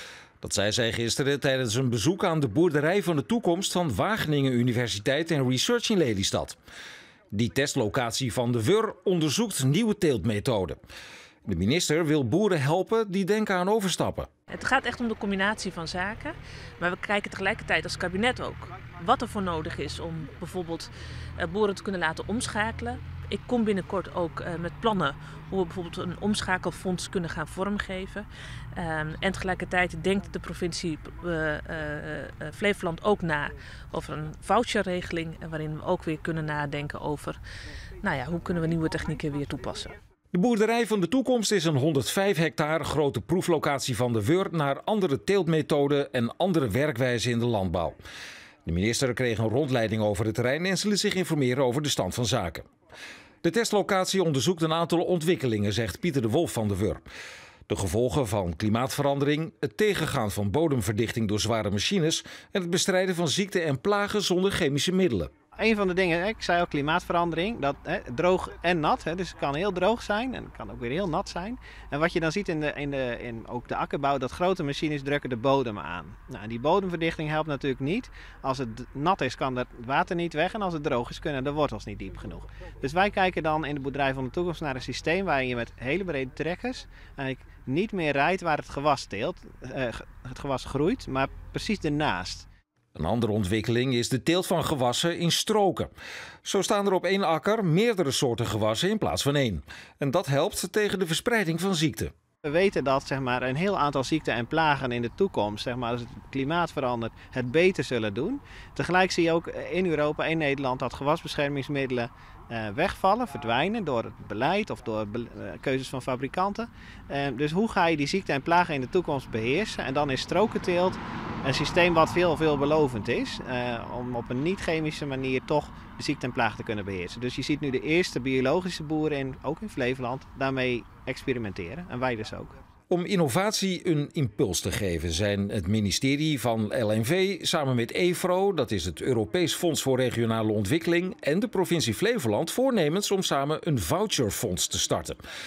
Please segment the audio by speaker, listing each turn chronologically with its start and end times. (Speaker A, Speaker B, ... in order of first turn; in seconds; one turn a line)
Speaker A: 0.4-6.5
Speaker A: 7.3-10.8
Speaker A: 11.4-14.3
Speaker B: 14.5-37.4
Speaker B: 38.0-40.0
Speaker A: 40.3-48.0
Speaker A: 48.6-52.6
Speaker A: 53.4-57.0
Speaker A: 57.7-65.3
Speaker C: 65.5-92.5
Speaker A: 92.9-95.9
Speaker A: 96.4-102.1
Speaker C: 102.4-132.6
Speaker A: 132.9-145.2